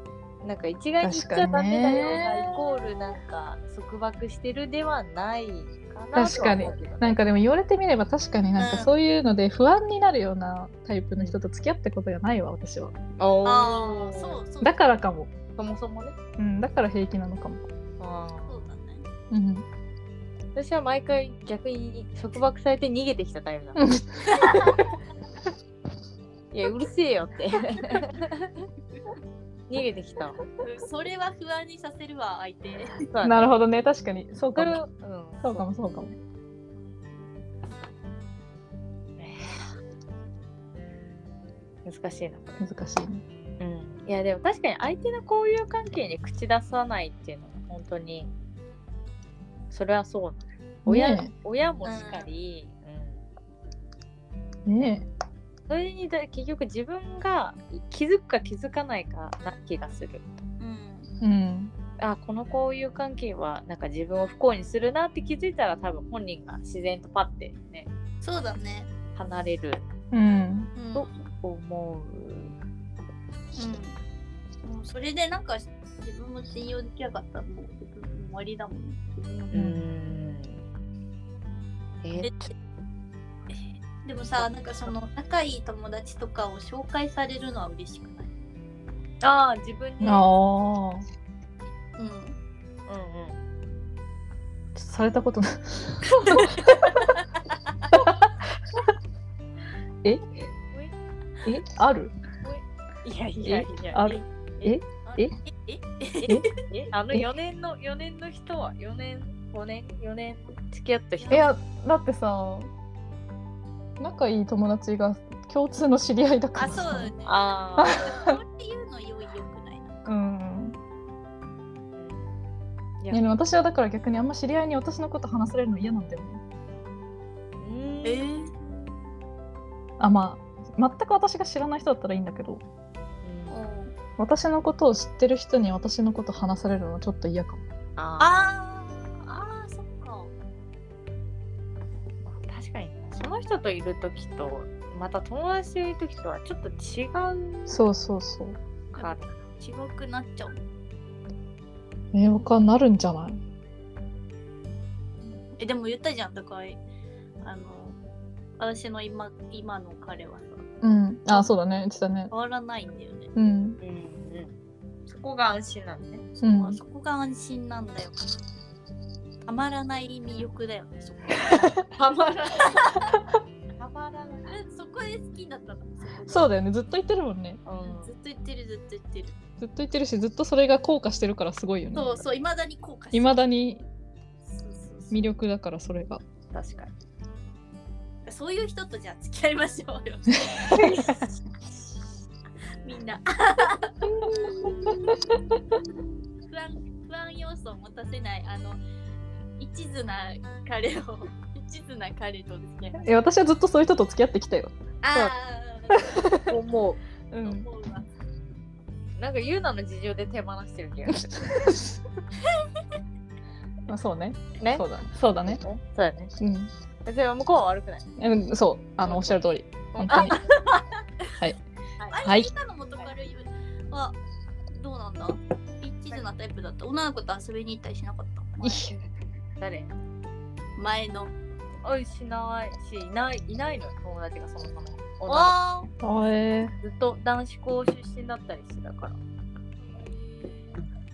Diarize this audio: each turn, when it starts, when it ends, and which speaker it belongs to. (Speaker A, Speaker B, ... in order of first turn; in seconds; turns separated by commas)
Speaker A: 0.4-7.2, Speaker B: 1.0-2.4, Speaker B: 6.1-12.9, Speaker C: 8.6-8.9, Speaker A: 13.2-14.4, Speaker C: 13.4-14.9, Speaker B: 14.6-15.3, Speaker A: 15.6-16.2, Speaker B: 16.4-17.6, Speaker A: 18.0-18.7, Speaker C: 18.5-19.1, Speaker B: 19.3-19.6, Speaker A: 20.6-23.8, Speaker B: 23.8-24.8, Speaker C: 24.3-24.9, Speaker A: 26.5-28.5, Speaker A: 29.7-30.4, Speaker C: 30.6-33.0, Speaker A: 33.1-33.6, Speaker B: 33.2-34.8, Speaker A: 34.5-35.6, Speaker B: 35.4-36.2, Speaker A: 39.2-39.7, Speaker A: 41.9-42.6, Speaker B: 42.6-43.2, Speaker A: 43.6-48.3, Speaker A: 49.7-53.2, Speaker B: 50.9-51.3, Speaker C: 51.8-52.3, Speaker B: 54.7-55.1, Speaker A: 55.7-60.2, Speaker C: 60.6-61.1, Speaker B: 61.2-61.7, Speaker A: 62.0-67.9, Speaker C: 68.2-68.9, Speaker A: 69.2-69.8, Speaker B: 70.1-70.7, Speaker C: 70.8-71.1, Speaker A: 70.9-72.5, Speaker C: 73.6-74.0, Speaker C: 74.6-79.7, Speaker A: 79.5-80.6, Speaker A: 82.0-82.3, Speaker C: 82.2-82.5, Speaker C: 83.5-88.3, Speaker A: 84.3-84.9, Speaker A: 89.2-90.3, Speaker B: 90.0-91.0, Speaker C: 92.0-92.4, Speaker A: 92.9-93.4, Speaker B: 94.8-96.7, Speaker C: 96.2-97.1, Speaker B: 101.5-102.2, Speaker A: 102.4-104.1, Speaker B: 103.4-105.3, Speaker C: 104.1-106.5, Speaker A: 106.3-111.5, Speaker C: 111.2-111.5, Speaker B: 111.3-112.7, Speaker B: 114.0-117.1, Speaker C: 116.6-120.1, Speaker A: 117.2-118.0, Speaker B: 117.8-118.3, Speaker B: 120.1-120.8, Speaker A: 122.0-122.4, Speaker A: 123.0-123.4, Speaker B: 123.1-126.4, Speaker A: 127.6-128.5, Speaker C: 128.0-128.5, Speaker B: 130.0-132.6, Speaker A: 133.2-133.6, Speaker C: 133.5-133.9, Speaker B: 134.2-137.6, Speaker A: 138.0-138.5, Speaker C: 138.2-140.3, Speaker A: 142.3-147.8, Speaker B: 147.7-148.6, Speaker C: 148.9-150.6, Speaker A: 149.0-149.3, Speaker B: 152.1-153.4, Speaker C: 155.6-156.8, Speaker C: 157.4-158.0, Speaker C: 158.6-160.6, Speaker B: 160.8-162.3, Speaker C: 162.3-163.3, Speaker B: 163.3-163.8, Speaker A: 163.8-164.5, Speaker A: 165.1-166.3, Speaker C: 166.4-168.2, Speaker B: 166.4-166.8, Speaker C: 169.4-171.8, Speaker A: 171.7-172.9, Speaker C: 172.6-173.1, Speaker A: 173.8-174.5, Speaker C: 174.5-176.5, Speaker B: 176.3-177.6, Speaker A: 177.7-178.1, Speaker C: 177.8-179.3, Speaker B: 179.6-182.2, Speaker C: 181.9-183.4, Speaker B: 183.1-183.8, Speaker C: 184.4-185.3, Speaker B: 185.1-186.2, Speaker A: 186.5-186.9, Speaker C: 188.3-190.8, Speaker B: 190.8-191.3, Speaker A: 190.8-191.2, Speaker C: 192.8-193.9, Speaker A: 194.3-195.2, Speaker C: 196.5-198.8, Speaker C: 199.6-203.2, Speaker B: 203.0-204.8, Speaker C: 205.0-206.3, Speaker B: 206.1-206.5, Speaker A: 206.5-207.0, Speaker B: 207.3-207.7, Speaker C: 207.4-208.1, Speaker A: 209.2-211.4, Speaker B: 211.4-211.9, Speaker B: 213.9-215.6, Speaker A: 214.6-214.9, Speaker A: 215.4-216.3, Speaker B: 216.4-216.7, Speaker A: 217.1-218.1, Speaker B: 218.2-220.4, Speaker A: 219.0-220.4, Speaker C: 222.1-224.2, Speaker B: 222.2-222.5, Speaker C: 224.7-228.8, Speaker B: 228.6-228.9, Speaker A: 228.7-229.1, Speaker A: 229.6-229.9, Speaker C: 230.8-231.3, Speaker A: 231.8-235.6, Speaker C: 235.3-235.9, Speaker B: 236.0-236.7, Speaker A: 236.8-239.2, Speaker C: 239.8-240.8